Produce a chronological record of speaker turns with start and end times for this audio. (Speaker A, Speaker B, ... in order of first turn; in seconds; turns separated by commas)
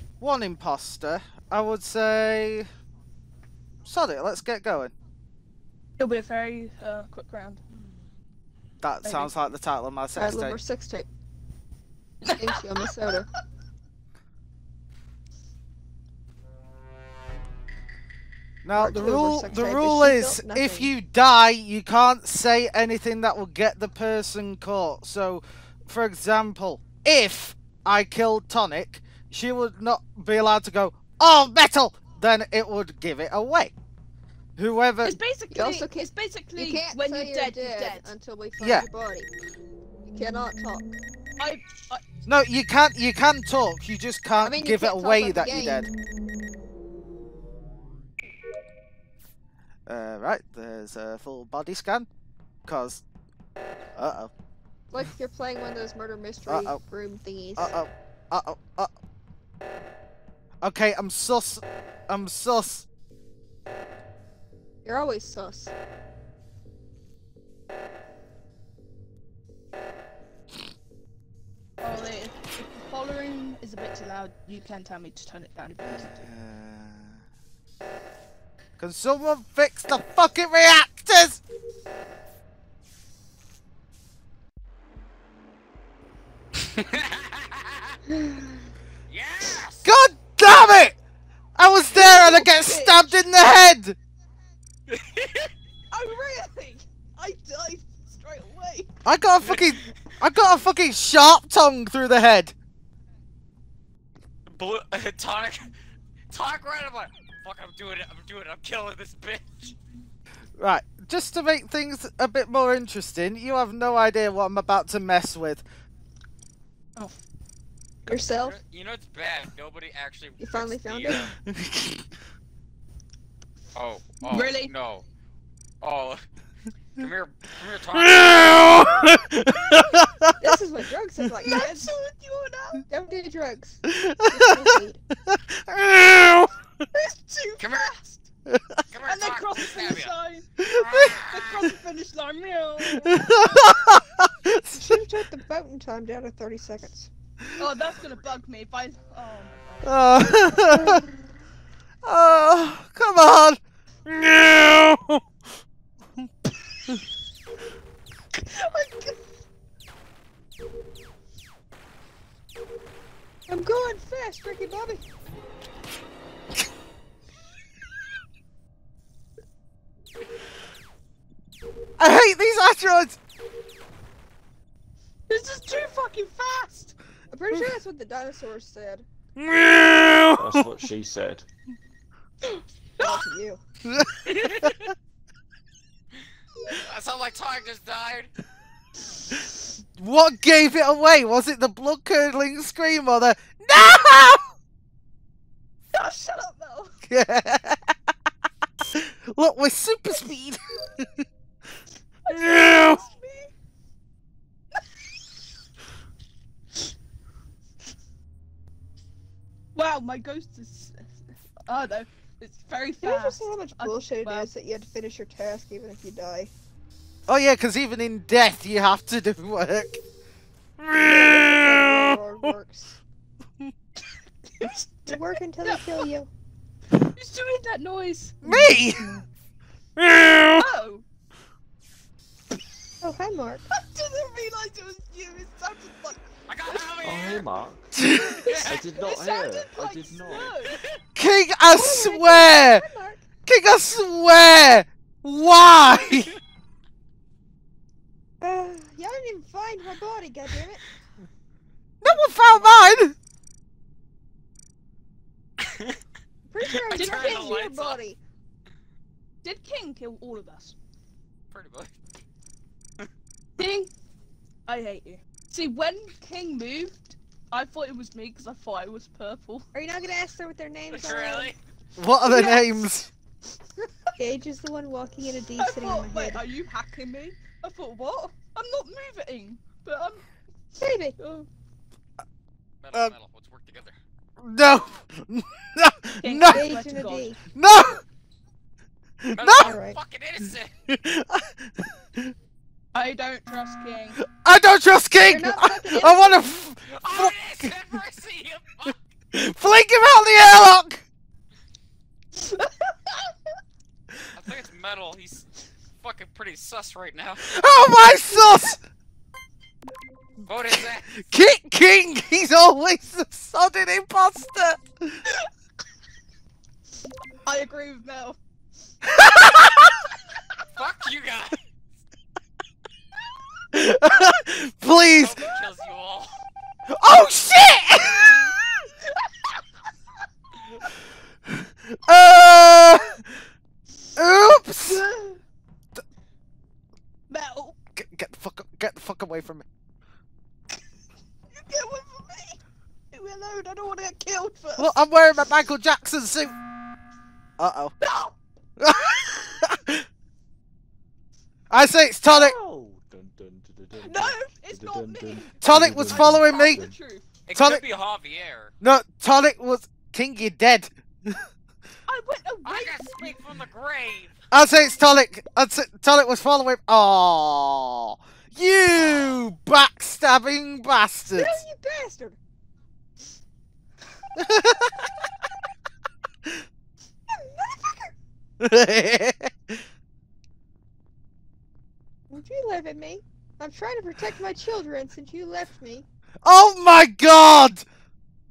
Speaker A: 0.2-2.7, Speaker A: 3.9-4.9, Speaker B: 6.0-7.6, Speaker A: 8.8-10.6, Speaker B: 9.0-9.3, Speaker C: 10.2-11.1, Speaker B: 12.2-12.6, Speaker C: 12.4-13.3, Speaker A: 18.6-33.7, Speaker C: 18.8-20.9, Speaker A: 34.6-35.2, Speaker B: 35.0-38.1, Speaker C: 35.5-39.3, Speaker A: 38.6-38.9, Speaker C: 40.1-41.0, Speaker B: 41.4-42.0, Speaker A: 42.3-45.9, Speaker C: 44.4-45.9, Speaker A: 49.9-52.1, Speaker A: 52.7-53.0, Speaker A: 54.0-54.3, Speaker C: 54.9-57.7, Speaker A: 56.5-56.8, Speaker A: 57.6-58.9, Speaker A: 60.6-62.9, Speaker C: 64.8-65.7, Speaker B: 71.8-76.3, Speaker A: 75.8-77.2, Speaker A: 78.8-81.4, Speaker D: 86.8-87.6, Speaker C: 88.3-88.5, Speaker D: 89.1-89.9, Speaker A: 89.8-91.0, Speaker A: 91.6-94.0, Speaker B: 91.9-93.2, Speaker D: 94.9-95.5, Speaker B: 95.9-98.9, Speaker A: 99.0-102.5, Speaker D: 104.5-105.7, Speaker D: 106.3-109.8, Speaker A: 110.6-115.6, Speaker C: 118.1-118.6, Speaker D: 118.3-121.3, Speaker C: 120.4-121.3, Speaker A: 121.5-122.1, Speaker D: 123.8-125.0, Speaker B: 124.3-124.7, Speaker D: 125.8-126.2, Speaker D: 127.0-128.9, Speaker A: 127.9-130.5, Speaker C: 130.4-131.9, Speaker B: 131.4-132.9, Speaker C: 132.9-135.0, Speaker A: 133.9-134.7, Speaker A: 135.3-136.5, Speaker B: 136.9-138.3, Speaker D: 137.6-137.9, Speaker A: 138.5-138.8, Speaker D: 138.9-140.1, Speaker B: 139.1-140.5, Speaker A: 140.6-141.2, Speaker D: 140.7-141.7, Speaker B: 141.1-143.9, Speaker A: 143.0-144.9, Speaker C: 144.7-147.1, Speaker B: 147.6-150.1, Speaker A: 149.8-151.0, Speaker A: 152.0-155.2, Speaker B: 158.4-159.2, Speaker C: 163.5-165.0, Speaker A: 172.0-173.2, Speaker B: 175.3-176.9, Speaker C: 177.3-179.1, Speaker A: 179.4-180.7, Speaker E: 180.4-181.5, Speaker B: 182.4-183.3, Speaker C: 183.0-183.6, Speaker A: 183.8-184.8, Speaker D: 184.3-184.9, Speaker D: 186.7-188.3, Speaker A: 190.0-194.4, Speaker B: 195.9-196.9, Speaker A: 197.1-198.0, Speaker A: 198.8-201.1, Speaker B: 202.2-203.5, Speaker A: 202.3-203.0, Speaker B: 209.8-214.5, Speaker C: 213.0-216.5, Speaker A: 217.3-220.0, Speaker A: 220.8-222.5, Speaker C: 221.0-223.0, Speaker B: 224.5-225.8, Speaker C: 225.1-226.3, Speaker B: 227.0-228.8, Speaker A: 228.4-229.2, Speaker A: 230.0-230.7, Speaker B: 230.6-231.0, Speaker C: 233.0-233.7, Speaker B: 233.7-236.8, Speaker D: 236.5-237.5, Speaker E: 237.0-238.0, Speaker A: 238.0-238.5, Speaker D: 238.4-238.8, Speaker B: 238.4-240.8, Speaker E: 238.6-240.6, Speaker A: 241.2-242.8, Speaker C: 241.7-243.3, Speaker A: 243.4-246.3, Speaker C: 248.4-250.9, Speaker A: 252.0-253.2, Speaker C: 256.5-258.2, Speaker D: 256.9-258.0, Speaker B: 256.9-257.5, Speaker B: 259.4-260.8, Speaker D: 261.5-261.9, Speaker B: 263.6-263.9, Speaker B: 264.7-269.7, Speaker C: 269.7-271.5, Speaker D: 270.9-271.6, Speaker A: 272.0-273.1, Speaker B: 272.3-272.6, Speaker C: 274.2-276.4, Speaker B: 275.6-280.2, Speaker C: 280.8-281.2, Speaker B: 281.2-281.5, Speaker D: 282.8-284.0, Speaker A: 284.4-286.7, Speaker B: 286.2-287.3, Speaker C: 286.5-287.4, Speaker A: 287.5-288.0, Speaker A: 289.2-289.8, Speaker D: 289.3-290.7, Speaker C: 289.6-290.0, Speaker A: 290.9-292.3, Speaker B: 292.9-294.2, Speaker A: 294.2-298.0, Speaker C: 295.2-296.5, Speaker D: 296.9-299.0, Speaker A: 299.3-301.0, Speaker B: 302.4-303.3, Speaker D: 304.3-305.5, Speaker D: 306.0-307.5, Speaker A: 307.4-308.8, Speaker D: 310.5-311.1, Speaker A: 310.7-315.2, Speaker B: 317.4-318.4, Speaker A: 319.1-319.9, Speaker D: 320.7-321.6, Speaker A: 323.7-325.4, Speaker D: 325.1-326.4, Speaker A: 326.9-328.5, Speaker B: 329.2-329.5, Speaker A: 331.5-333.3, Speaker A: 334.2-335.1, Speaker B: 334.9-335.4, Speaker B: 337.3-337.8, Speaker A: 338.0-339.7, Speaker B: 341.5-342.6, Speaker B: 343.1-345.0, Speaker A: 344.8-346.5, Speaker A: 347.6-347.9, Speaker B: 348.0-348.4, Speaker A: 348.8-350.1, Speaker A: 351.7-352.6, Speaker E: 352.3-357.0, Speaker B: 354.0-357.3, Speaker A: 355.6-356.9, Speaker D: 357.5-358.7, Speaker A: 357.5-357.8, Speaker A: 358.8-361.4, Speaker B: 362.1-363.3, Speaker D: 362.6-364.4, Speaker A: 364.5-371.6, Speaker D: 369.1-369.4, Speaker C: 371.3-372.4, Speaker A: 374.4-374.9, Speaker C: 377.3-378.1, Speaker A: 378.6-379.8, Speaker C: 382.3-386.1, Speaker A: 386.4-387.9